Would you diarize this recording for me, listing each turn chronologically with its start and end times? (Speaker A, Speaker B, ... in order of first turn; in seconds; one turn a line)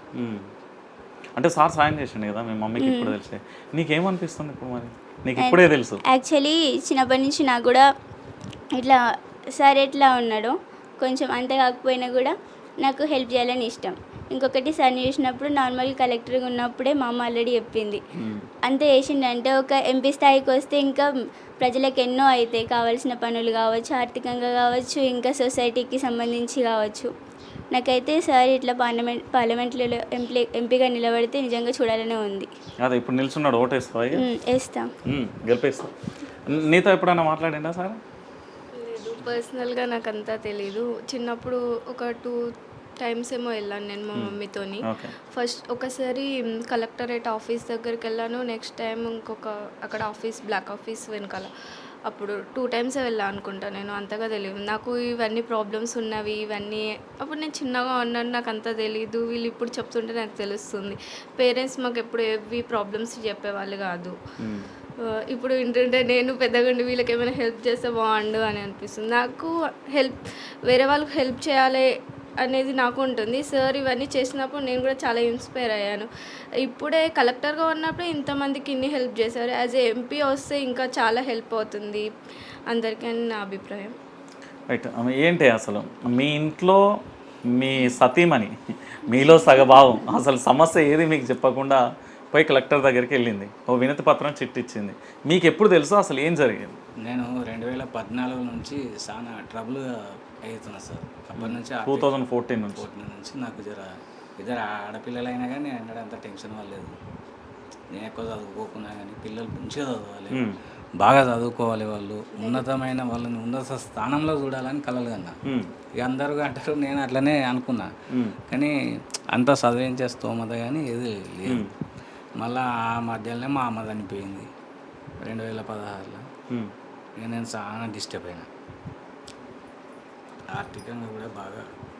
Speaker A: 0.2-0.4
Speaker A: 1.4-6.0
Speaker B: 2.8-3.1
Speaker B: 5.4-7.8
Speaker B: 9.6-18.0
Speaker A: 18.2-18.4
Speaker B: 18.6-21.1
Speaker B: 21.6-27.1
Speaker B: 27.7-32.5
Speaker A: 32.8-34.2
Speaker B: 34.1-34.9
Speaker A: 35.1-35.9
Speaker A: 36.5-38.0
Speaker C: 38.7-42.4
Speaker C: 43.0-51.5
Speaker A: 44.1-45.1
Speaker C: 52.1-64.2
Speaker A: 64.4-64.7
Speaker C: 65.3-71.8
Speaker C: 72.4-76.1
Speaker C: 76.6-82.1
Speaker C: 82.7-84.0
Speaker A: 84.7-86.8
Speaker A: 87.5-88.5
Speaker A: 89.0-96.8
Speaker D: 97.0-102.2
Speaker A: 101.3-102.8
Speaker D: 102.7-106.9
Speaker D: 107.9-110.4
Speaker A: 110.3-110.6
Speaker D: 111.0-115.3
Speaker D: 116.0-117.9
Speaker A: 118.1-118.4
Speaker D: 118.5-118.7
Speaker D: 119.3-121.7
Speaker A: 121.5-121.7
Speaker D: 122.4-124.5
Speaker D: 125.2-126.2
Speaker D: 127.2-128.5
Speaker D: 130.5-131.7